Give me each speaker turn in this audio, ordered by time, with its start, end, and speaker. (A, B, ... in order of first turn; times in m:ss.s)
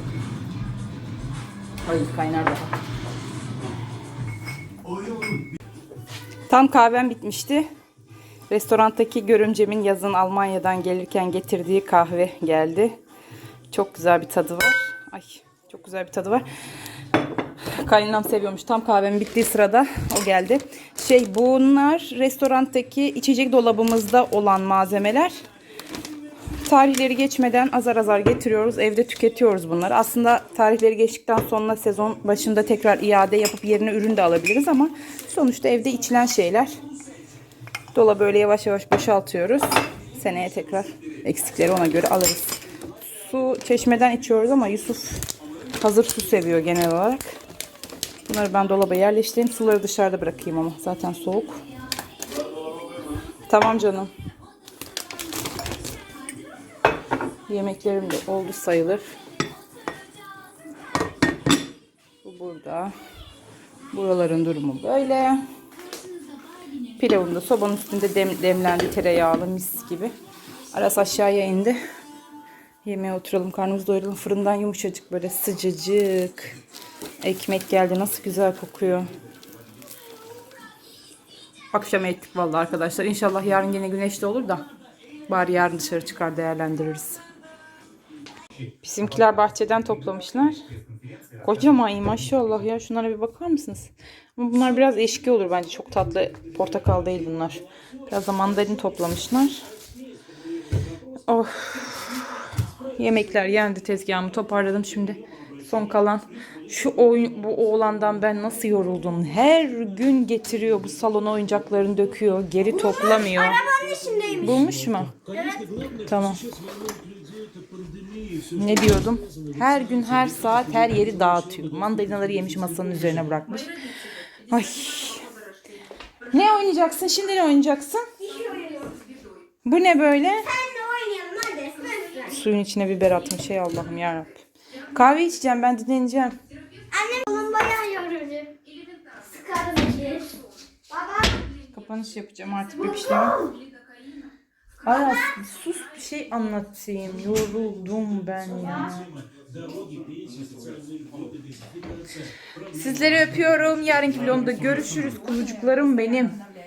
0:01.8-0:02.7 A
0:06.5-0:07.7 A
0:08.5-0:13.0 A
0:13.7-0:16.5 A
0:17.7-0:25.4 A
0:26.6-0:36.8 A
0:37.9-0:45.3 A
0:45.8-0:47.3 A
0:48.3-0:51.6 A
0:53.5-0:54.1 A
0:57.5-0:59.1 A
1:02.2-1:02.9 A
1:03.9-1:05.4 A
1:06.9-1:10.1 A
1:10.7-1:11.8 A
1:12.8-1:16.6 A
1:17.2-1:19.1 A
1:21.7-1:24.6 A
1:25.3-1:27.2 A
1:28.8-1:30.6 A
1:31.4-1:39.6 A
1:41.3-1:42.0 A
1:43.0-1:53.6 A
1:52.9-1:54.6 B
1:54.4-1:55.2 A
1:55.3-1:55.8 B
1:55.9-1:56.4 A
1:58.4-2:03.8 A
2:04.5-2:05.3 A
2:06.3-2:08.1 A
2:08.3-2:09.0 B
2:09.6-2:10.5 A
2:10.5-2:12.3 B
2:12.2-2:16.4 A
2:16.9-2:20.4 B
2:20.9-2:21.4 B
2:21.7-2:23.5 A
2:23.2-2:23.5 B
2:24.8-2:29.2 A
2:32.7-2:36.4 A